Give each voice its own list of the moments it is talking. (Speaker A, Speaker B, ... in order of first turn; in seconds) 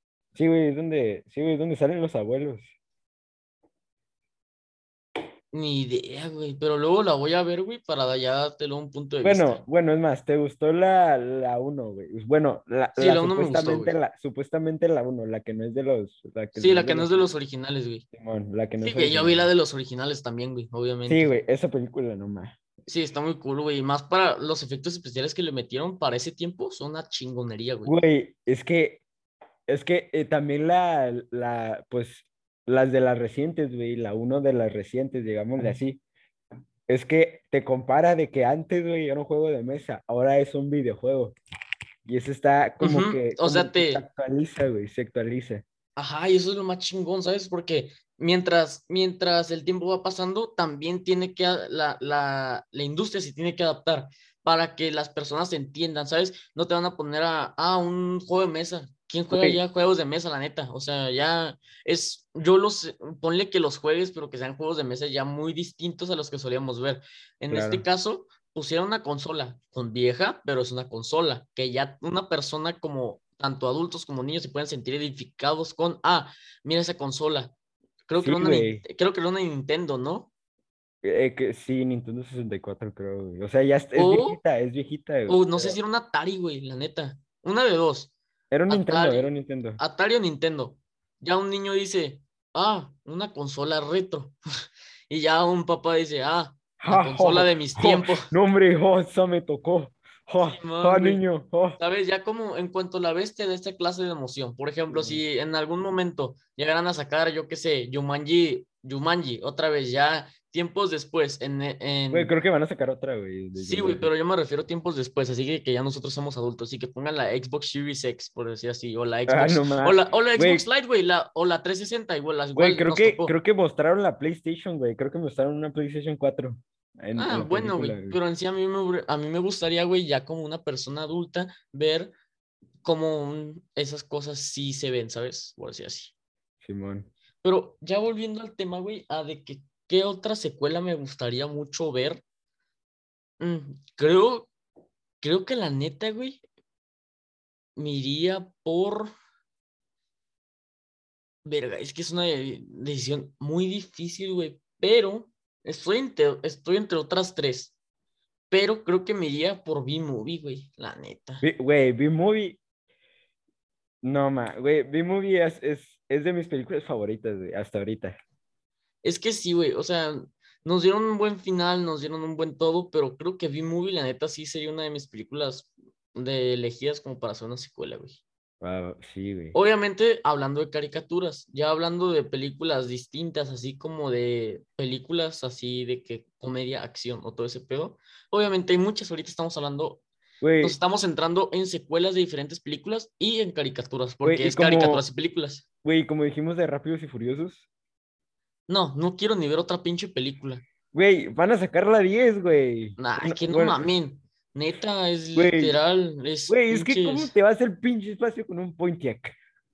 Speaker A: 0.3-2.7, 9.2-17.3, 18.1-19.5, 21.1-22.6, 27.9-29.0, 29.7-36.0, 36.9-41.4, 42.1-45.6, 59.3-59.6, 67.5-67.9, 78.2-78.8, 81.0-85.8, 88.5-89.8, 96.8-101.8, 104.9-105.2, 112.1-114.1, 119.3-120.7, 122.5-128.2, 136.6-137.1, 161.4-162.6, 164.0-168.2, 178.6-179.6, 190.4-190.8, 194.2-195.1, 195.8-197.7, 200.9-203.8, 205.3-205.8, 206.5-209.3
Speaker B: 5.5-9.6, 13.0-13.9, 16.6-18.0, 18.8-21.4, 22.9-28.0, 42.8-44.0, 46.0-77.5, 78.1-80.3, 84.0-84.4, 85.3-88.1, 88.7-94.3, 95.1-98.3, 100.4-101.2, 101.8-112.3, 113.6-123.3, 127.2-132.1, 132.8-136.1, 137.4-142.2, 143.4-144.5, 145.2-146.4, 147.8-149.1, 151.4-157.8, 158.5-161.4, 169.0-178.2, 179.5-190.0, 190.6-195.6, 198.7-200.6, 203.0-207.3